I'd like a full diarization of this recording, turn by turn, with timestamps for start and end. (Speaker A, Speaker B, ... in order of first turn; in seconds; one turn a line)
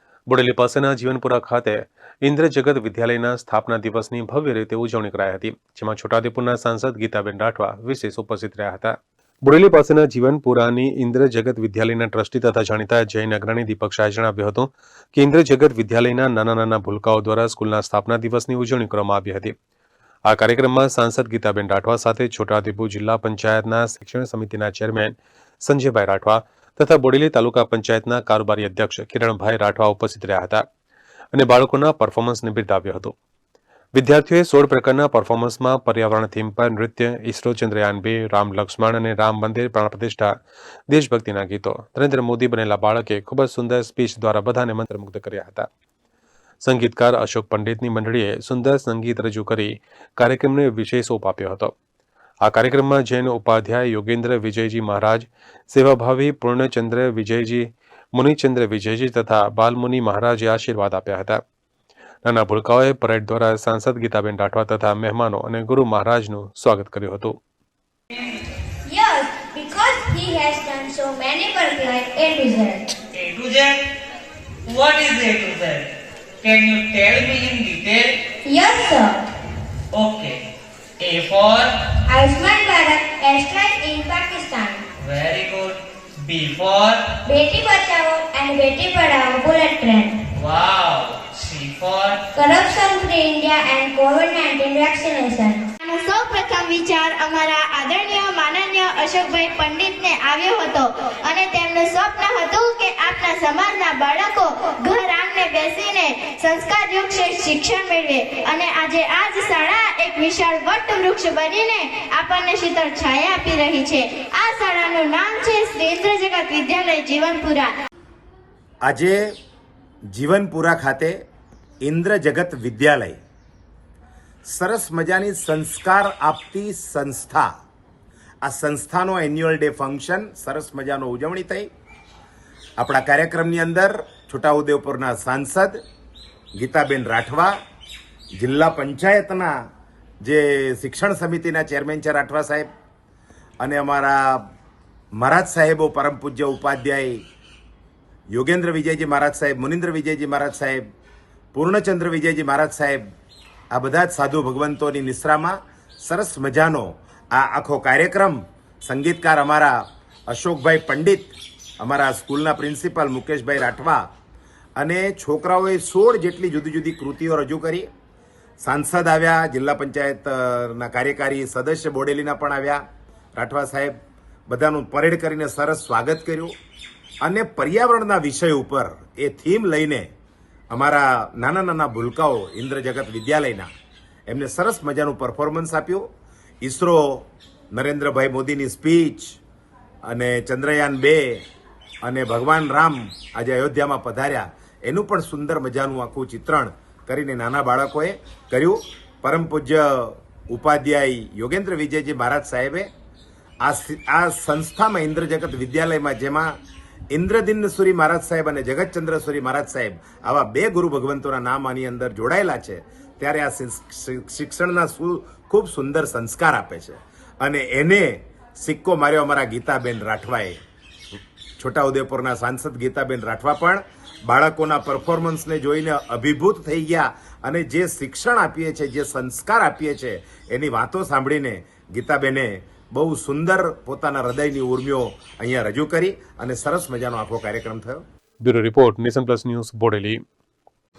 Speaker A: 0.3-19.6
Speaker A: 20.3-30.6
Speaker A: 31.3-33.1
Speaker A: 34.0-40.3
Speaker A: 40.9-45.7
Speaker A: 46.6-51.7
Speaker A: 52.4-61.4
Speaker A: 62.2-67.4
Speaker B: 68.8-72.9
Speaker C: 73.1-73.9
Speaker C: 74.7-78.2
Speaker B: 78.4-79.2
Speaker C: 79.9-80.4
Speaker C: 81.0-81.9
Speaker B: 82.0-84.8
Speaker C: 85.0-87.2
Speaker B: 87.2-90.2
Speaker C: 90.3-92.3
Speaker B: 92.3-95.7
Speaker D: 95.8-117.8
Speaker E: 118.9-119.2
Speaker E: 120.1-121.2
Speaker E: 121.8-123.2
Speaker E: 124.5-127.5
Speaker E: 128.4-131.7
Speaker E: 132.8-135.8
Speaker E: 136.6-137.6
Speaker E: 138.4-139.5
Speaker E: 140.2-142.7
Speaker E: 143.6-144.4
Speaker E: 145.2-147.2
Speaker E: 148.3-150.8
Speaker E: 151.5-153.0
Speaker E: 153.7-164.0
Speaker E: 164.8-167.9
Speaker E: 168.6-172.8
Speaker E: 173.3-173.9
Speaker E: 174.5-176.5
Speaker E: 177.2-180.1
Speaker E: 180.7-183.7
Speaker E: 184.3-186.1
Speaker E: 186.6-189.4
Speaker E: 190.1-191.4
Speaker E: 192.0-202.9
Speaker E: 203.6-206.6
Speaker E: 207.1-220.6
Speaker E: 221.6-238.0
Speaker A: 238.4-240.2